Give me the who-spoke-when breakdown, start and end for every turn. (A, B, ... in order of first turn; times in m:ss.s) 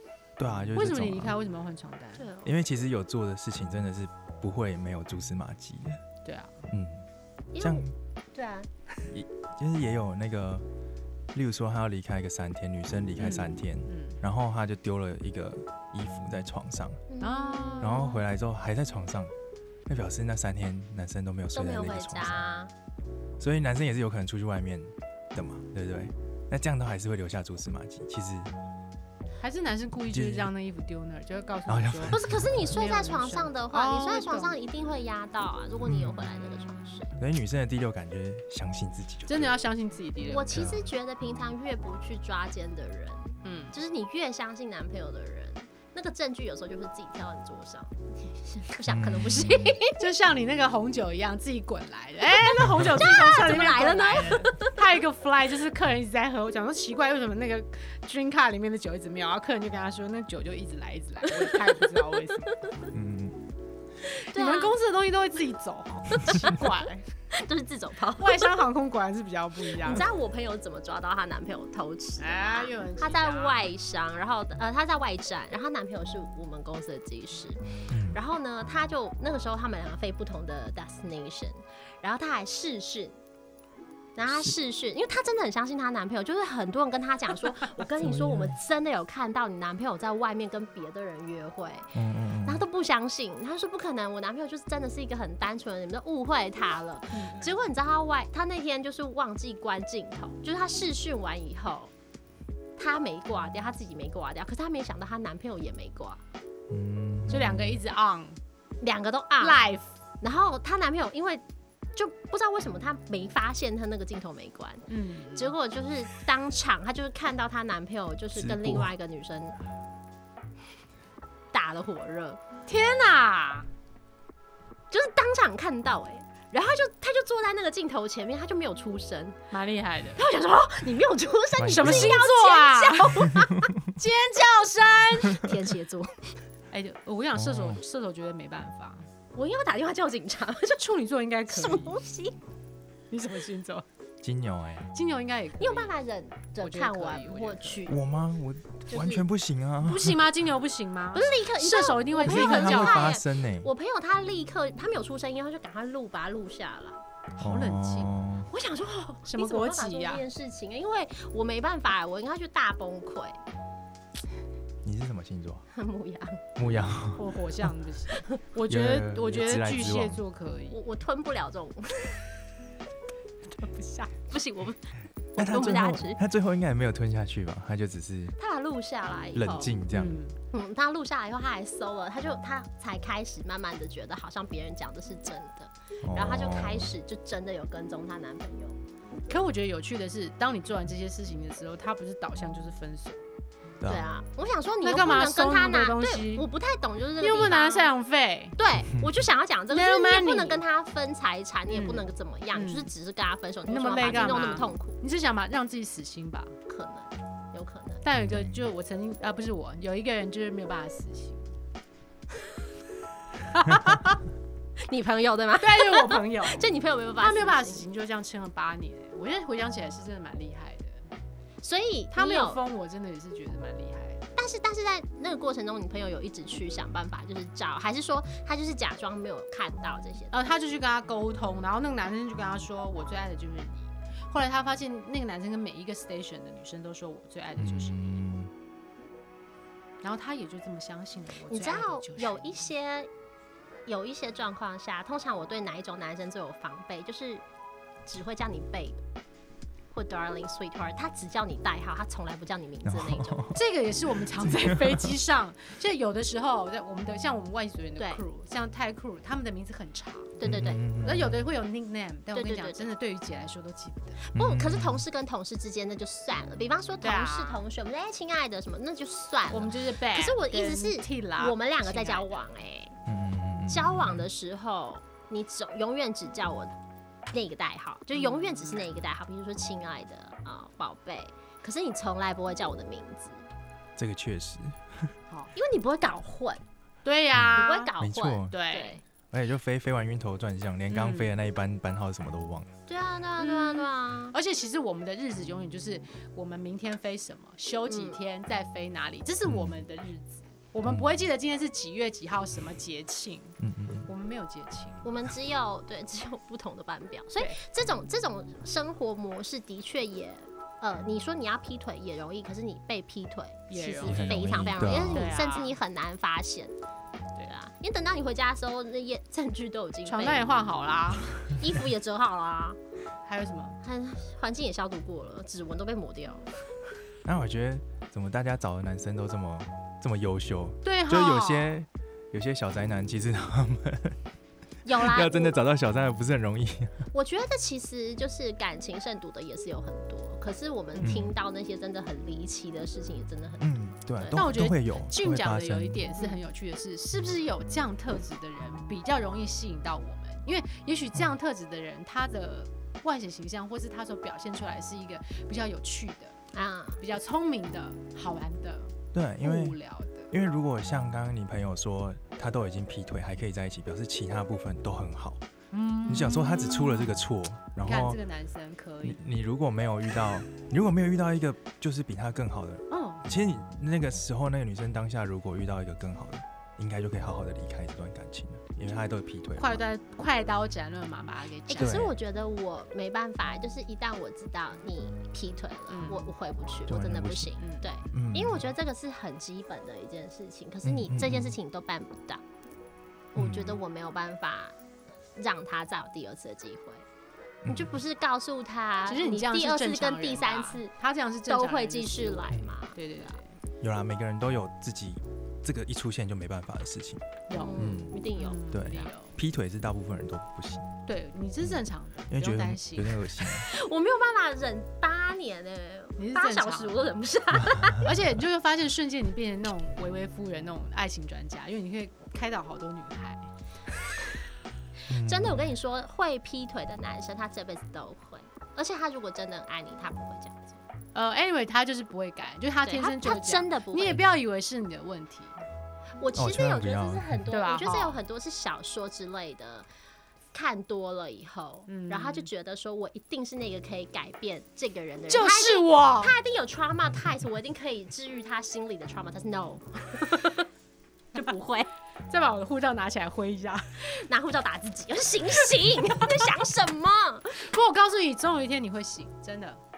0:00.4-0:01.4 A
0:00.7-0:02.3 B
0:02.2-0:02.5 C
0:02.4-0:06.0 A
0:06.2-0:06.6 B
0:06.7-0:07.1 A
0:07.5-0:08.7 C
0:07.6-0:07.9 A
0:09.1-0:10.6 A
0:11.3-0:17.0 A
0:13.2-0:14.2 B
0:17.1-0:18.2 C
0:17.2-0:18.1 B
0:17.8-0:19.3 A
0:19.9-0:22.4 A
0:21.5-0:22.7 C
0:23.4-0:28.5 A
0:29.4-0:34.6 B
0:30.1-0:30.5 A
0:31.7-0:32.7 A
0:32.1-0:37.1 C
0:35.8-0:36.2 A
0:37.2-0:39.5 A
0:39.3-0:40.7 B
0:40.3-0:50.1 C
0:40.5-0:40.8 A
0:43.4-0:43.8 B
0:48.9-0:49.8 A
0:50.0-1:02.6 B
0:52.5-0:54.7 C
1:02.9-1:03.4 A
1:04.1-1:04.7 C
1:04.3-1:07.0 B
1:06.3-1:06.7 C
1:07.3-1:08.6 C
1:08.2-1:10.0 B
1:09.8-1:23.2 C
1:12.2-1:13.6 B
1:17.9-1:18.2 A
1:24.2-1:41.9 C
1:28.0-1:28.6 A
1:32.0-1:32.6 A
1:37.1-1:37.5 B
1:42.8-1:46.2 C
1:46.7-1:47.8 A
1:47.3-1:48.4 B
1:48.8-1:49.6 C
1:49.4-1:50.0 B
1:50.2-1:51.4 C
1:52.0-1:59.6 C
1:54.9-1:55.5 B
1:58.4-1:58.9 A
2:01.5-2:02.4 C
2:02.7-2:03.7 B
2:04.9-2:09.4 C
2:09.5-2:10.2 B
2:10.2-2:13.7 C
2:11.6-2:12.2 A
2:11.7-2:15.5 B
2:15.3-2:16.3 C
2:16.7-2:19.1 B
2:17.4-2:17.8 A
2:19.4-2:20.8 C
2:20.7-2:22.0 B
2:21.5-2:22.4 C
2:23.1-2:23.8 B
2:24.2-2:24.9 A
2:24.9-2:26.0 B
2:25.6-2:28.0 C
2:26.6-2:27.9 B
2:27.9-2:30.2 A
2:28.9-2:29.2 C
2:29.8-2:33.2 B
2:31.1-2:37.0 C
2:32.2-2:33.7 A
2:37.4-2:38.1 B
2:37.4-2:38.5 A
2:38.5-2:43.4 C
2:39.2-2:40.2 B
2:44.8-2:45.7 A
2:45.7-2:46.4 C
2:46.6-2:47.7 A
2:47.2-2:50.8 B
2:48.7-2:50.2 A
2:50.7-2:52.2 C
2:53.5-2:54.1 B
2:54.3-2:54.8 C
2:55.3-2:56.2 C
2:55.4-2:58.4 A
2:58.4-2:59.8 C
2:59.4-3:00.2 A
2:59.9-3:00.4 B
3:00.5-3:08.8 C
3:06.0-3:06.9 A
3:09.3-3:13.2 B
3:13.8-3:17.9 C
3:14.8-3:16.5 B
3:17.2-3:18.6 B
3:18.6-3:25.0 C
3:18.9-3:19.3 A
3:19.7-3:20.6 B
3:21.7-3:22.9 B
3:23.7-3:26.5 B
3:26.7-3:28.0 C
3:28.0-3:31.5 B
3:28.2-3:28.7 A
3:33.5-3:34.2 B
3:34.8-3:37.8 C
3:35.6-3:36.7 B
3:37.2-3:41.0 B
3:41.6-3:42.6 C
3:42.1-3:44.3 B
3:44.4-3:50.4 C
3:50.3-3:58.2 B
3:57.6-3:58.5 A
4:00.0-4:02.5 B
4:01.5-4:03.1 C
4:03.9-4:07.4 C
4:08.1-4:09.0 C
4:09.9-4:13.5 C
4:12.8-4:13.6 A
4:13.5-4:20.4 B
4:14.4-4:15.1 A
4:20.4-4:20.8 C
4:20.4-4:21.4 A
4:21.0-4:24.2 B
4:22.3-4:22.9 C
4:24.2-4:33.0 C
4:24.4-4:25.0 A
4:27.0-4:27.6 B
4:29.5-4:32.5 B
4:33.1-4:34.3 A
4:33.7-4:36.7 C
4:37.3-4:43.4 C
4:38.1-4:38.9 B
4:44.0-4:45.1 A
4:45.3-4:45.5 B
4:45.5-4:46.6 C
4:47.0-4:47.9 B
4:47.3-4:48.6 A
4:47.5-4:49.0 C
4:48.5-4:49.0 B
4:49.3-4:52.7 A
4:50.9-4:51.3 B
4:52.9-4:54.4 C
4:53.4-5:05.0 B
4:57.9-4:58.2 C
4:59.4-4:59.8 A
5:00.9-5:01.2 A
5:03.6-5:04.1 A
5:05.0-5:16.7 C
5:13.7-5:15.8 B
5:14.0-5:15.4 A
5:17.5-5:20.5 C
5:20.1-5:21.4 B
5:21.4-5:22.8 C
5:23.2-5:23.8 B
5:23.8-5:26.5 C
5:27.2-5:34.2 A
5:30.8-5:31.8 B
5:34.8-5:35.6 C
5:35.0-5:37.0 A
5:37.1-5:44.5 C
5:41.0-5:41.3 A
5:43.6-5:46.0 A
5:44.3-5:56.4 B
5:56.5-5:57.0 C
5:57.0-6:00.3 B
5:59.1-5:59.8 A
6:00.3-6:05.4 A
6:05.7-6:07.2 B
6:06.1-6:08.2 A
6:07.8-6:09.2 B
6:09.0-6:19.8 A
6:12.9-6:13.3 B
6:19.6-6:22.1 B
6:21.7-6:32.4 C
6:21.8-6:22.1 A
6:25.9-6:26.3 B
6:26.9-6:27.6 A
6:27.6-6:27.9 B
6:28.1-6:28.7 A
6:30.8-6:31.6 A
6:33.3-6:34.8 C
6:33.4-6:33.8 A
6:35.4-6:37.0 C
6:37.6-6:38.0 A
6:37.7-6:40.9 C
6:39.1-6:43.6 B
6:41.5-6:43.0 C
6:43.8-6:47.2 A
6:47.5-6:49.4 B
6:47.5-6:49.1 C
6:47.8-6:48.2 A
6:48.7-6:50.9 A
6:51.1-6:53.2 B
6:51.6-6:53.7 A
6:53.6-6:58.1 C
6:56.2-6:57.0 B
6:58.0-7:03.5 B
7:05.1-7:05.7 A
7:05.1-7:10.8 C
7:11.2-7:15.6 B
7:12.8-7:14.2 C
7:16.2-7:19.9 C
7:16.4-7:17.4 A
7:17.5-7:18.2 B
7:20.5-7:30.7 C
7:21.9-7:22.5 B
7:25.3-7:26.3 B
7:31.3-7:31.9 C
7:32.3-7:34.1 B
7:34.1-7:37.6 C
7:37.6-7:39.8 B